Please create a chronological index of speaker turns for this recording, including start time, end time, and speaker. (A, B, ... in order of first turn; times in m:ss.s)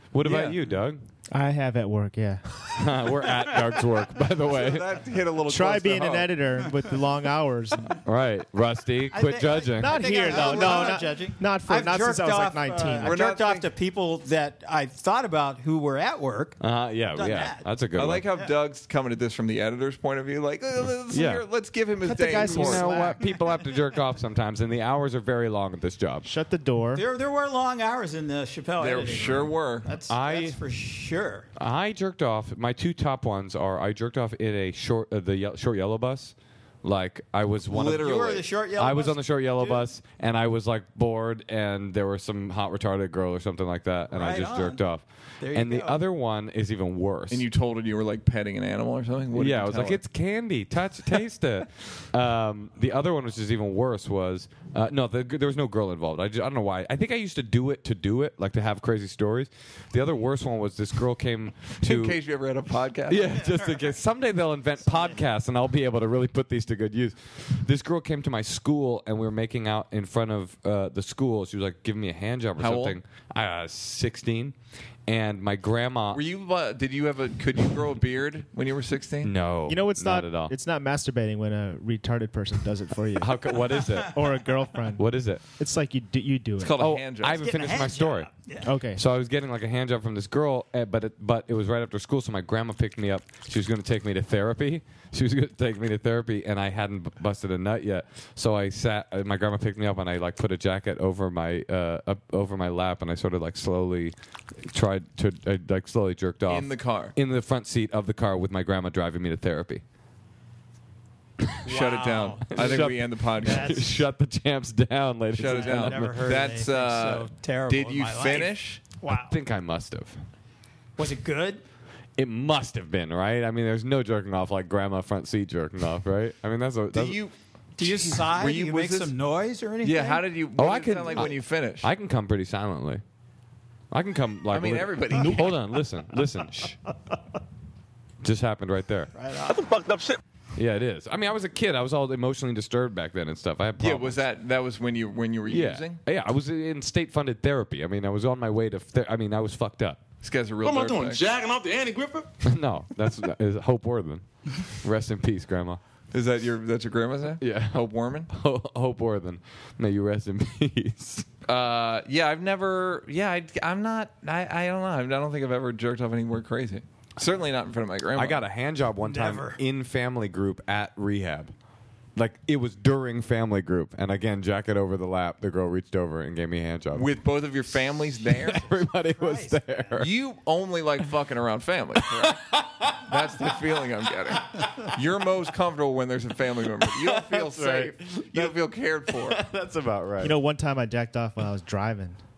0:00.1-0:01.0 A
0:01.3-0:02.7 B
0:02.7-0:04.9 A
0:04.4-0:06.4 C
0:05.5-0:08.0 B
0:08.0-0:10.9 A
0:09.1-0:17.7 D
0:09.8-0:13.1 B
0:13.0-0:13.7 C
0:16.6-0:18.2 A
0:18.0-0:22.9 C
0:21.1-0:21.4 A
0:22.0-0:23.3 B
0:22.2-0:26.3 A
0:26.2-0:27.0 B
0:26.9-0:31.5 D
0:28.8-0:29.9 C
0:30.1-0:30.6 A
0:31.6-0:38.2 A
0:37.7-0:38.4 C
0:37.8-0:39.9 D
0:38.8-0:47.4 A
0:44.1-0:44.8 D
0:45.4-0:46.0 D
0:47.3-0:50.0 C
0:49.3-1:02.2 A
1:01.8-1:03.6 C
1:03.1-1:14.5 A
1:12.6-1:13.0 C
1:15.1-1:16.2 A
1:16.1-1:19.3 C
1:19.2-1:20.5 A
1:19.7-1:26.8 B
1:23.2-1:24.4 A
1:25.0-1:25.4 A
1:26.6-1:27.5 C
1:26.8-1:28.3 A
1:27.4-1:28.7 D
1:28.6-1:29.0 B
1:28.9-1:49.8 A
1:46.5-1:47.1 C
1:51.6-1:52.9 D
1:51.6-1:53.9 C
1:52.5-1:56.2 A
1:53.4-1:53.9 D
1:55.4-1:58.8 C
1:55.4-1:59.4 D
1:59.1-2:00.2 A
2:01.0-2:01.6 D
2:02.2-2:07.2 A
2:06.9-2:09.1 C
2:07.8-2:10.2 D
2:09.8-2:11.9 C
2:10.6-2:13.0 A
2:13.9-2:16.8 A
2:14.5-2:15.6 C
2:18.2-2:19.1 A
2:19.1-2:19.6 D
2:19.5-2:20.2 E
2:20.5-2:24.2 A
2:23.8-2:26.0 C
2:25.5-2:30.0 A
2:30.2-2:31.3 C
2:30.6-2:32.3 E
2:32.4-2:35.8 A
2:36.1-2:38.3 C
2:37.4-2:41.3 A
2:41.4-2:48.4 C
2:48.2-2:51.5 A
2:49.0-2:49.6 D
2:52.2-2:57.1 A
2:57.0-2:58.7 C
2:58.2-3:00.1 A
2:59.0-2:59.9 D
3:00.0-3:09.5 C
3:02.0-3:03.6 A
3:06.8-3:08.6 A
3:09.1-3:10.4 A
3:10.2-3:12.2 B